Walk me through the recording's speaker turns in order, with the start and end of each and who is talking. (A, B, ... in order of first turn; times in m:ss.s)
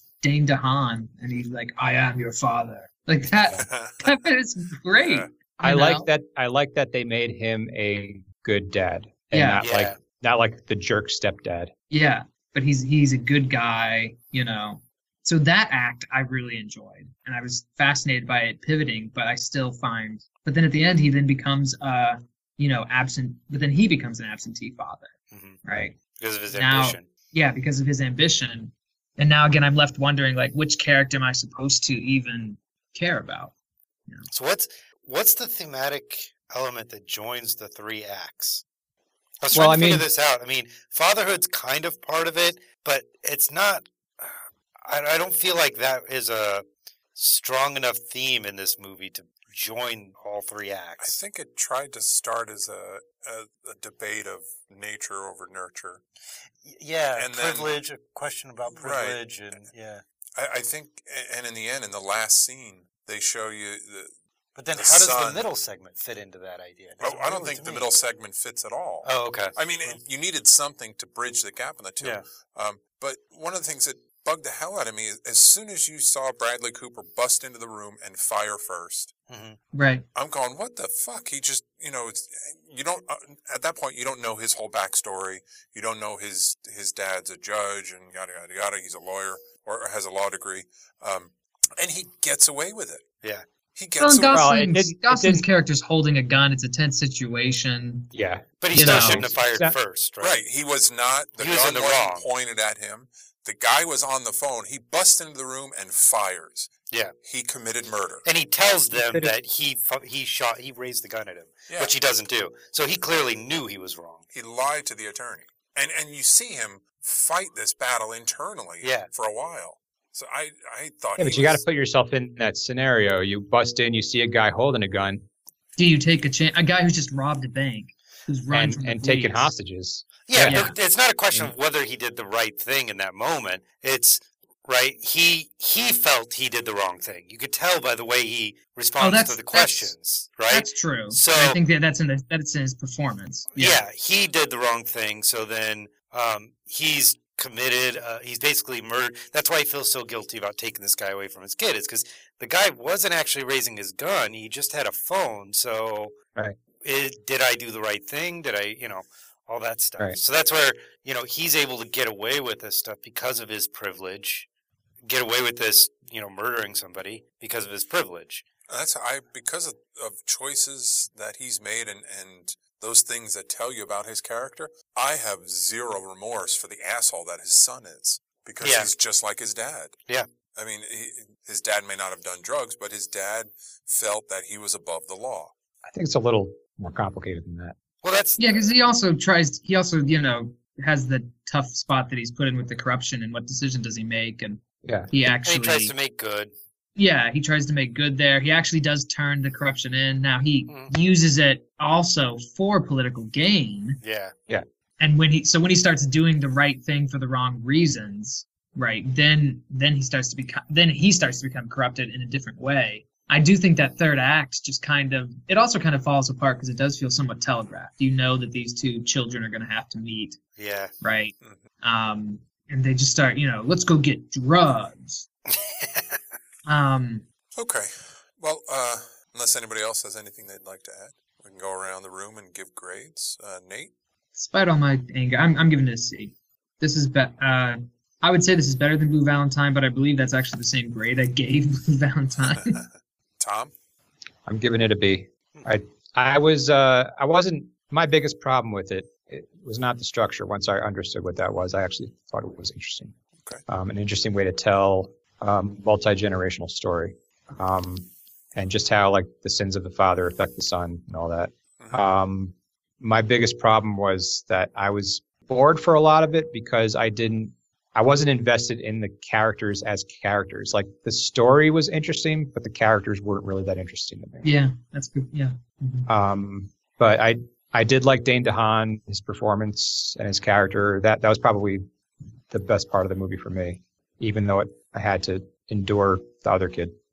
0:00.2-0:06.1 A
0:03.6-0:04.0 B
0:05.0-0:05.3 B
0:05.6-0:11.7 C
0:09.3-0:09.6 A
0:09.6-0:10.0 D
0:11.9-0:25.1 A
0:25.3-0:25.6 D
0:25.6-0:26.0 A
0:26.2-0:27.1 D
0:26.5-0:33.5 A
0:34.3-0:38.6 D
0:39.4-0:51.2 D
0:39.5-0:40.1 C
0:51.0-0:56.0 B
0:56.6-1:00.0 D
0:57.2-0:57.7 B
0:58.7-0:59.7 B
1:00.4-1:04.1 B
1:04.6-1:07.9 D
1:04.8-1:05.5 B
1:07.0-1:19.1 B
1:09.0-1:10.0 D
1:19.3-1:19.6 D
1:19.7-1:20.1 A
1:20.2-1:33.0 B
1:33.8-1:34.4 B
1:34.0-1:38.1 A
1:34.3-1:35.5 C
1:38.1-1:39.8 C
1:38.6-1:40.4 D
1:38.7-1:39.3 A
1:40.2-1:46.7 B
1:41.4-1:42.3 D
1:47.2-1:48.3 B
1:48.2-1:54.3 D
1:48.9-1:49.3 C
1:54.3-2:01.6 B
1:58.8-1:59.1 D
2:01.2-2:05.2 C
2:05.8-2:09.5 A
2:08.5-2:10.7 C
2:10.3-2:21.6 D
2:10.5-2:10.7 A
2:19.0-2:19.9 A
2:20.5-2:23.8 A
2:23.6-2:36.1 D
2:36.8-2:44.5 D
2:45.0-2:48.4 D
2:48.7-3:00.0 B
2:58.6-2:58.9 D
3:00.6-3:05.5 B
3:05.8-3:07.8 C
3:08.0-3:08.7 D
3:08.4-3:15.9 A
3:14.8-3:15.1 C
3:15.5-3:16.5 D
3:17.0-3:24.0 A
3:24.0-3:24.4 D
3:25.0-3:40.4 A
3:40.6-3:40.9 D
3:41.0-3:45.2 A
3:45.5-3:46.2 D
3:46.7-3:47.2 A
3:47.6-3:53.9 B
3:54.4-4:02.8 A
4:03.4-4:03.7 B
4:04.5-4:13.2 C
4:13.7-4:34.5 C
4:21.8-4:22.0 B
4:34.4-4:36.1 A
4:36.1-4:41.8 C
4:42.5-4:47.0 C